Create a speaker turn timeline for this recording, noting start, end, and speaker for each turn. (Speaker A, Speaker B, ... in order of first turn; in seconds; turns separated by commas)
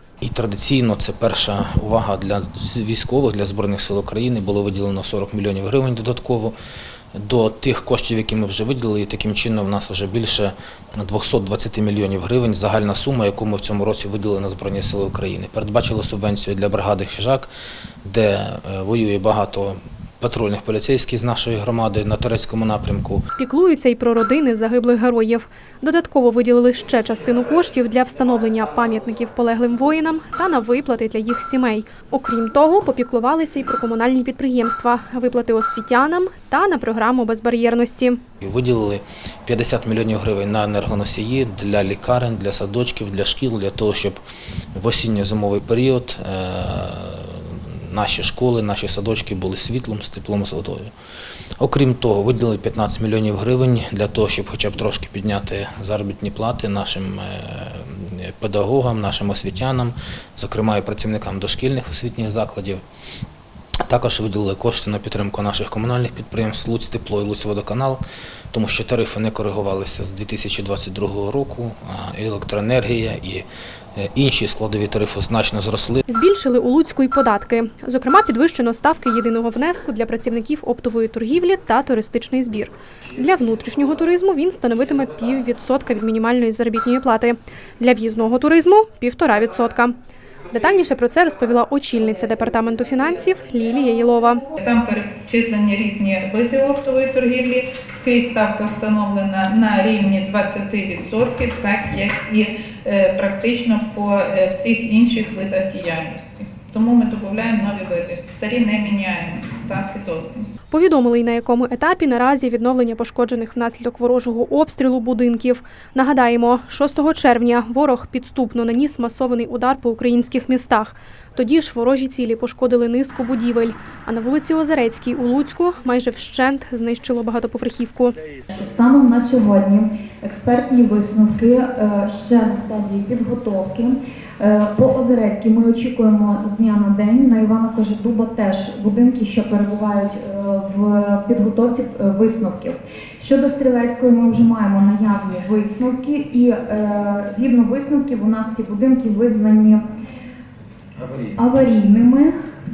Speaker A: 0.2-6.5, Speaker A: 7.2-17.5, Speaker A: 18.0-23.2, Speaker B: 23.4-38.2, Speaker A: 38.4-44.2, Speaker A: 44.7-50.9, Speaker A: 51.6-62.8, Speaker A: 63.9-76.0, Speaker B: 76.1-89.9, Speaker B: 90.5-94.5, Speaker C: 94.6-110.5, Speaker B: 110.7-128.2, Speaker D: 128.5-149.8, Speaker D: 151.3-152.3